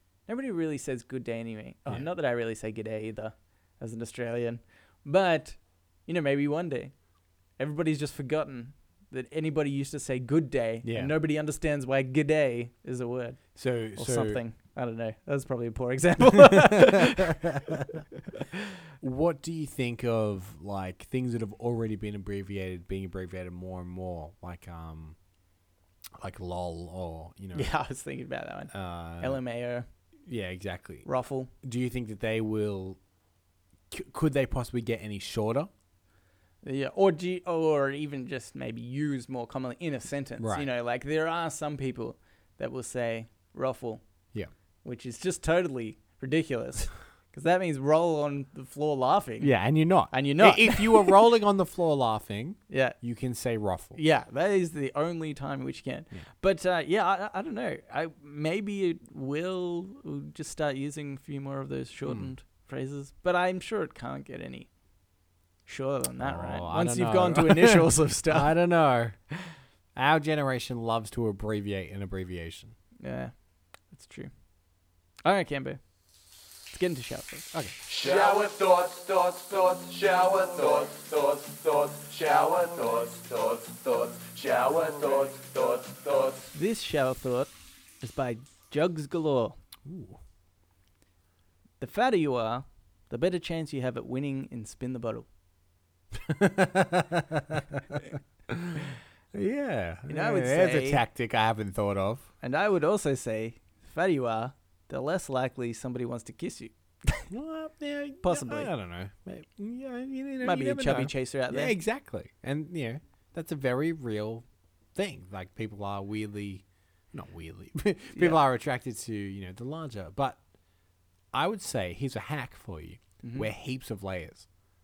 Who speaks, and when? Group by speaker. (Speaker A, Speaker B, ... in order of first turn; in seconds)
Speaker A: 0.3-7.0, 7.6-17.5, 27.5-29.9, 31.0-31.5, 36.6-44.0, 44.8-49.5, 50.1-51.1, 52.7-53.0, 53.9-64.7, 65.7-68.6, 73.0-74.3, 75.2-75.8, 76.7-77.5, 86.5-89.6, 91.8-95.3, 100.1-101.0, 102.4-107.2, 108.2-108.7, 110.4-111.7, 118.1-118.4, 123.2-123.5
Speaker B: 10.8-11.1, 13.5-14.4, 16.5-16.9, 19.0-25.2, 26.2-27.7, 28.7-29.4, 30.3-31.1, 31.6-33.0, 33.9-35.7, 40.4-40.6, 49.4-54.0, 62.0-62.3, 66.2-69.2, 69.9-72.7, 89.8-90.2, 96.1-102.3, 107.3-114.4, 114.9-120.4, 121.3-124.5
Speaker C: 77.8-86.5